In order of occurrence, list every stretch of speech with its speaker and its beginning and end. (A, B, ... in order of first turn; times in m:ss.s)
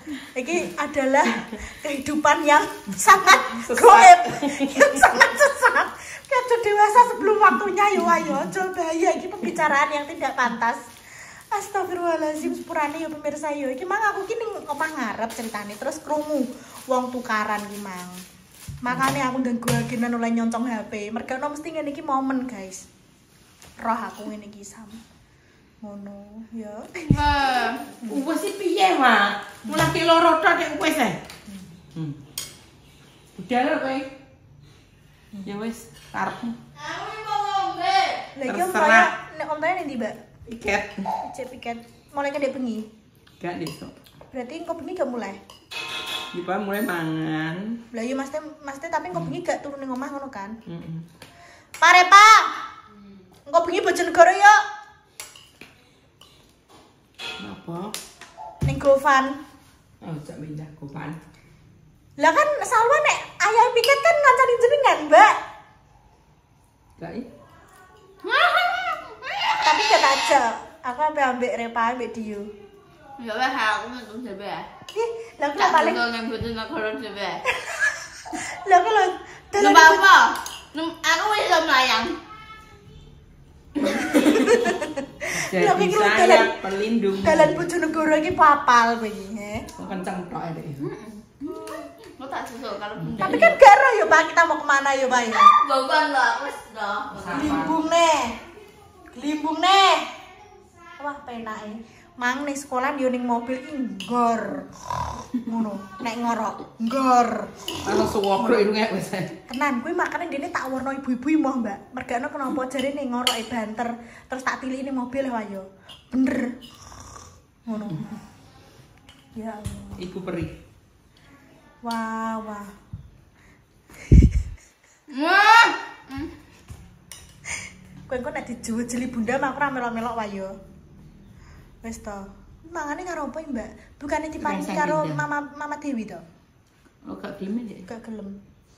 0:00.3-0:10.8 A
0:03.4-0:05.1 B
0:11.5-0:18.2 A
0:18.8-0:22.9 A
0:23.8-0:25.0 A
0:25.8-0:27.2 A
0:27.1-0:27.8 C
0:28.0-0:31.2 B
0:33.4-0:34.1 B
0:35.4-0:36.6 B
0:36.8-0:38.3 C
0:38.4-0:40.2 A
0:38.5-0:39.1 B
0:40.5-0:41.1 B
0:41.2-0:42.9 A
0:43.4-0:43.9 B
0:44.3-0:45.4 A
0:46.3-0:47.8 B
0:47.9-0:50.6 A
0:50.7-0:51.0 B
0:51.8-0:52.5 A
0:53.5-0:54.6 A
0:57.4-0:57.9 B
0:58.6-0:59.4 A
1:00.0-1:01.2 B
1:02.2-1:05.4 A
1:07.0-1:07.3 B
1:08.3-1:09.0 C
1:09.6-1:12.5 A
1:13.2-1:14.7 C
1:14.9-1:16.0 A
1:15.6-1:17.4 C
1:17.5-1:20.0 A
1:19.6-1:22.1 C
1:23.9-1:24.2 C
1:24.2-1:26.5 A
1:25.3-1:27.6 B
1:27.2-1:29.7 A
1:29.8-1:30.8 B
1:30.8-1:33.6 C
1:33.2-1:35.5 A
1:35.3-1:37.6 C
1:37.1-1:37.8 B
1:37.3-1:38.4 A
1:39.1-1:40.1 A
1:41.0-1:44.7 A
1:45.4-1:47.5 A
1:47.8-1:49.4 B
1:49.5-1:56.6 A
1:57.7-1:58.1 A
1:59.4-2:00.0 A
2:00.0-2:00.6 B
2:01.8-2:02.7 A
2:05.1-2:06.3 C
2:08.1-2:10.6 A
2:11.8-2:16.2 A
2:14.4-2:15.2 B
2:17.0-2:17.9 B
2:17.9-2:18.4 A